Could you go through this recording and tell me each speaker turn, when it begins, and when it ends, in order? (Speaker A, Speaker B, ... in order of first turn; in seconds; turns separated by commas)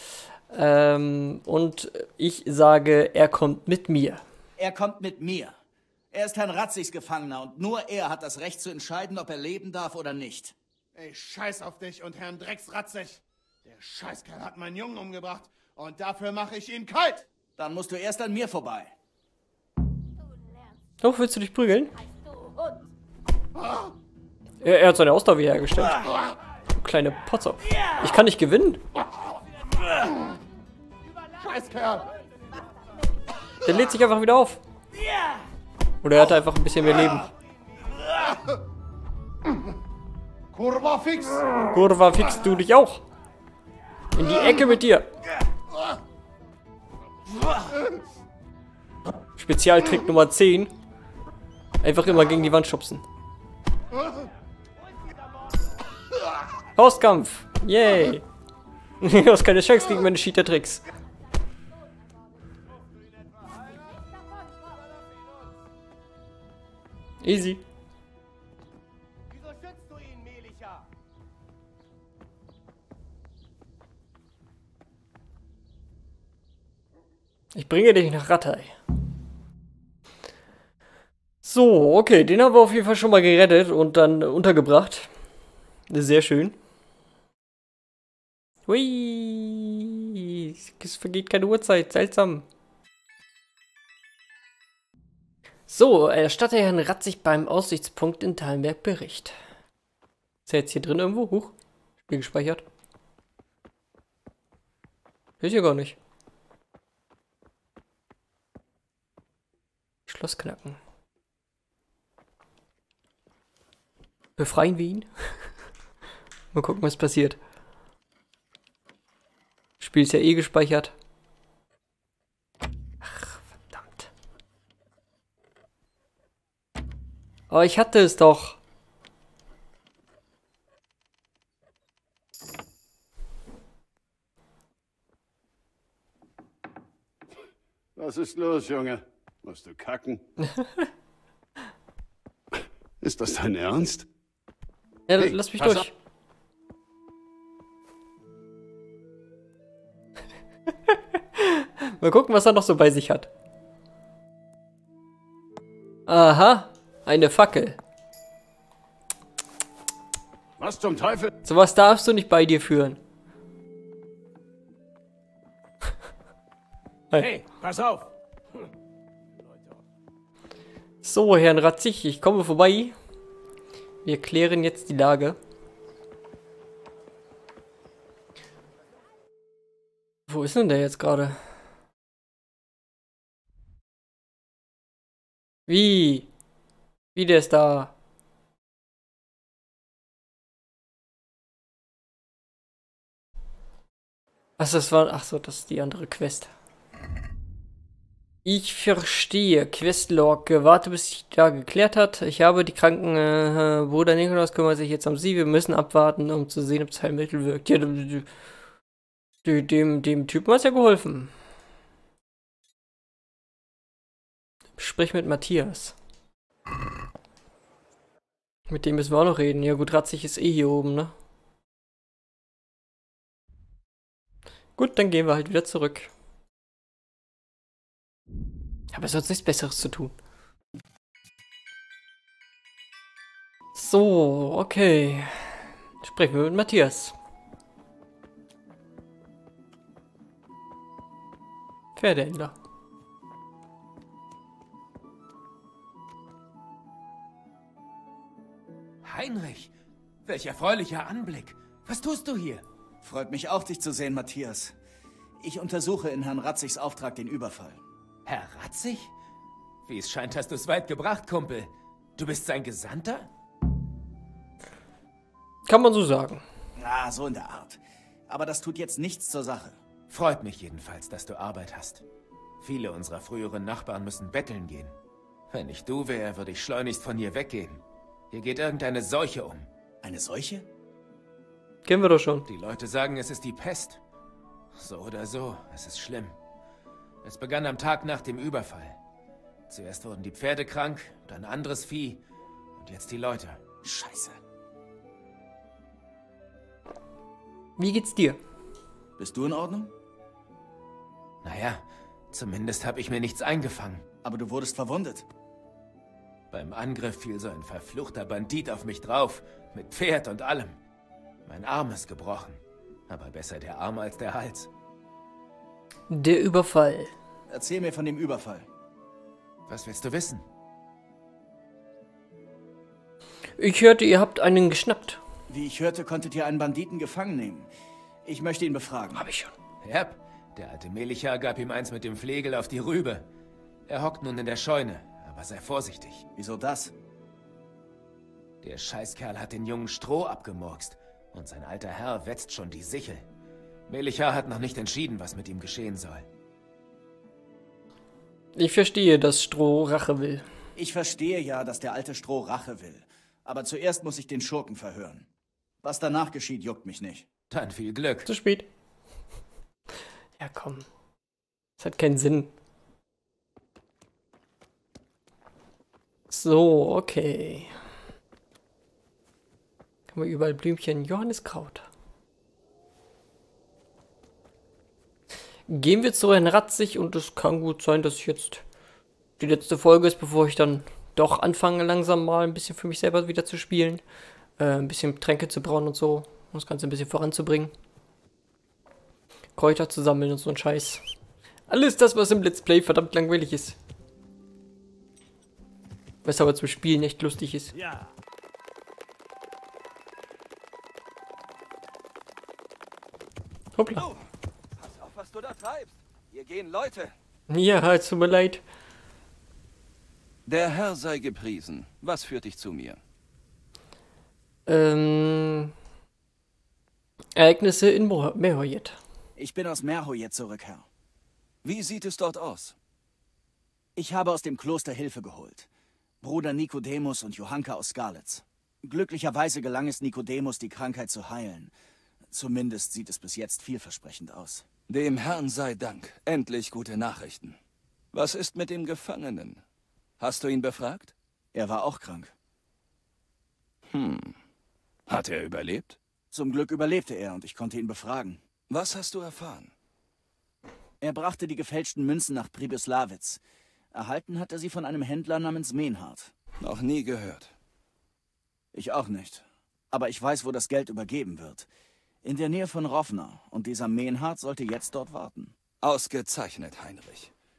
Speaker A: 0.5-4.2, Speaker B: 4.6-5.6, Speaker B: 6.1-10.6, Speaker C: 10.9-17.3, Speaker B: 17.6-18.9, Speaker A: 21.0-21.9, Speaker A: 24.6-26.2, Speaker A: 26.8-28.8, Speaker C: 31.4-32.1, Speaker A: 33.6-34.6, Speaker A: 36.0-37.3, Speaker C: 40.5-41.4, Speaker A: 41.7-43.0, Speaker A: 44.1-45.1, Speaker A: 49.4-50.7, Speaker A: 51.8-53.0, Speaker A: 56.8-58.2, Speaker A: 59.0-60.9, Speaker A: 67.2-67.6, Speaker A: 77.5-78.7, Speaker A: 81.4-85.1, Speaker A: 85.9-86.6, Speaker A: 88.7-92.5, Speaker A: 95.7-99.3, Speaker A: 100.5-101.5, Speaker A: 102.1-102.6, Speaker A: 105.4-106.0, Speaker A: 110.1-110.8, Speaker A: 114.4-115.5, Speaker A: 116.5-117.4, Speaker A: 119.8-120.9, Speaker A: 123.0-124.1, Speaker A: 127.5-128.6, Speaker D: 138.0-140.2, Speaker D: 143.0-144.1, Speaker A: 145.1-145.9, Speaker D: 145.2-145.9, Speaker A: 150.9-153.3, Speaker A: 156.1-157.8, Speaker D: 160.6-161.3, Speaker A: 161.4-163.0, Speaker C: 167.2-168.1, Speaker A: 171.0-173.0, Speaker A: 174.0-175.4, Speaker A: 180.3-181.4, Speaker A: 185.7-186.3, Speaker A: 187.2-187.9, Speaker A: 194.6-196.5, Speaker A: 198.4-208.3, Speaker A: 209.4-211.3, Speaker A: 214.8-215.9, Speaker A: 218.7-221.1, Speaker A: 224.8-226.1, Speaker A: 228.9-230.1, Speaker A: 233.8-237.1, Speaker A: 242.0-242.5, Speaker E: 249.0-249.7, Speaker E: 250.2-252.7, Speaker B: 253.0-254.8, Speaker B: 255.4-257.8, Speaker E: 258.3-259.1, Speaker E: 259.9-263.3, Speaker A: 265.7-266.4, Speaker B: 266.8-269.8, Speaker E: 270.1-272.0, Speaker E: 272.6-274.9, Speaker E: 275.5-279.7, Speaker B: 280.0-280.7, Speaker A: 281.9-282.5, Speaker E: 282.5-284.0, Speaker E: 284.8-286.4, Speaker E: 287.2-289.0, Speaker E: 289.7-292.2, Speaker E: 292.8-293.6, Speaker B: 293.8-294.4, Speaker A: 297.8-298.4, Speaker B: 299.2-299.9, Speaker E: 301.4-304.0, Speaker B: 304.2-305.3, Speaker E: 306.5-310.8, Speaker E: 311.5-314.7, Speaker A: 316.1-317.1, Speaker B: 317.5-318.7, Speaker E: 319.7-320.4, Speaker A: 323.6-325.2, Speaker B: 325.5-327.7, Speaker B: 328.2-329.3, Speaker A: 329.2-329.5, Speaker E: 329.8-333.3, Speaker E: 333.9-336.2, Speaker B: 336.4-336.9, Speaker E: 338.6-343.2, Speaker E: 343.9-346.3, Speaker A: 348.6-350.4, Speaker B: 350.8-355.3, Speaker B: 355.8-357.3, Speaker E: 357.5-358.3, Speaker A: 358.3-358.7, Speaker A: 360.4-360.9, Speaker A: 361.8-362.5, Speaker A: 366.3-367.7, Speaker A: 370.1-371.9, Speaker A: 375.7-378.6, Speaker A: 379.4-384.0, Speaker A: 384.6-387.7, Speaker A: 389.6-391.0, Speaker A: 391.7-393.8, Speaker A: 396.2-397.7, Speaker C: 397.8-398.1, Speaker A: 403.8-404.1, Speaker F: 404.0-407.1, Speaker A: 407.5-408.6, Speaker F: 410.5-413.0, Speaker A: 414.7-415.7, Speaker A: 417.4-419.0, Speaker B: 419.4-420.9, Speaker F: 421.6-422.8, Speaker B: 424.0-425.7, Speaker B: 426.2-431.7, Speaker B: 432.3-434.7, Speaker F: 434.9-437.6, Speaker F: 438.1-439.6, Speaker F: 440.2-441.1, Speaker B: 441.5-442.3, Speaker F: 443.9-444.4, Speaker F: 445.1-446.0, Speaker B: 446.3-448.4, Speaker F: 448.7-449.7, Speaker B: 451.0-453.4, Speaker B: 453.9-456.3, Speaker F: 456.6-457.5, Speaker B: 458.7-461.7, Speaker B: 462.2-465.6, Speaker F: 465.8-467.3